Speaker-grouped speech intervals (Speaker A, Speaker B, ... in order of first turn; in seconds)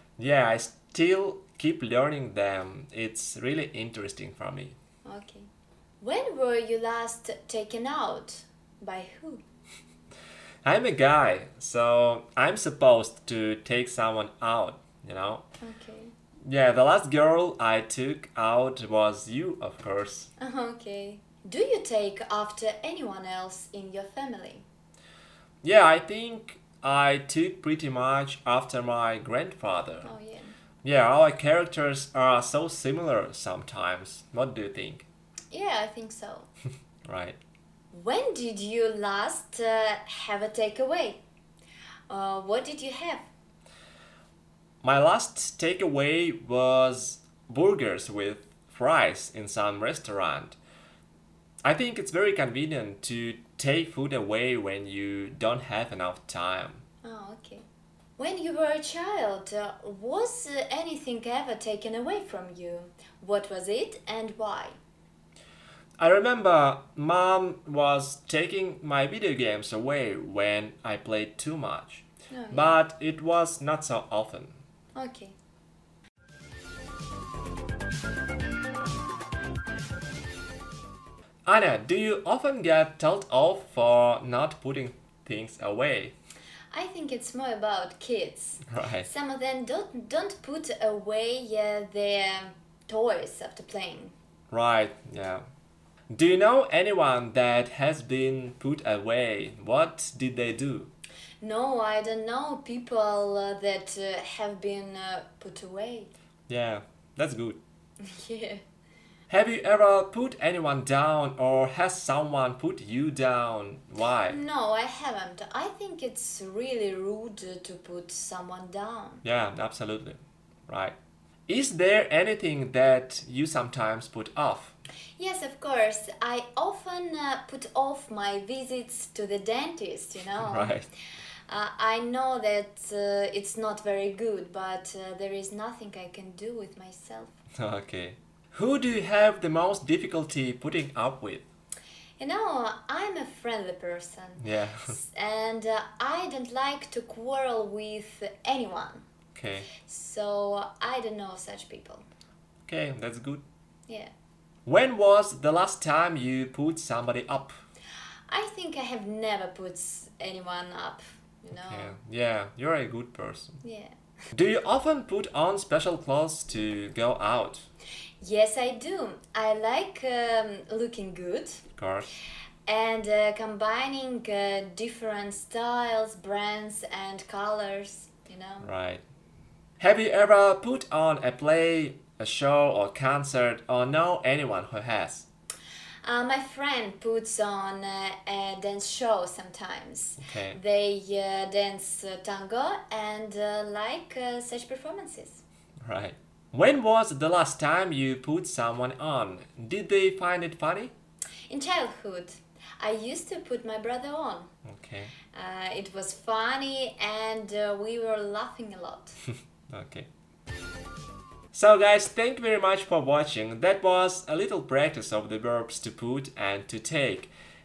Speaker A: 0.2-4.8, 10.6-15.5, 16.4-20.3, 25.6-30.1, 30.8-35.1, 37.1-37.4, 44.8-50.6, 51.6-56.8, 66.0-74.6, 81.5-86.2, 88.7-89.1, 94.5-95.4, 96.1-100.9, 106.5-107.6, 109.3-114.4, 119.2-121.0, 121.5-124.8, 130.4-130.9, 137.6-141.5, 144.4-145.0, 149.3-149.7, 152.7-153.4, 154.7-157.6, 161.6-163.6, 164.3-167.7, 171.8-172.1, 178.6-179.0, 179.8-185.3, 190.2-190.6, 195.8-200.9, 204.7-205.1, 209.7-210.1, 211.5-217.3
Speaker B: 5.0-5.5, 6.0-9.4, 15.6-16.1, 20.4-24.6, 30.0-30.6, 35.5-36.5, 37.9-41.2, 42.1-43.3, 57.0-57.6, 58.2-64.8, 72.3-72.8, 75.0-75.4, 86.7-94.1, 101.4-106.1, 108.0-108.6, 114.3-119.2, 125.2-130.8, 131.5-137.3, 142.2-149.0, 149.8-152.1, 158.3-161.9, 163.6-163.9, 168.2-171.7, 172.7-178.7, 186.0-195.4, 201.5-204.5, 205.3-209.2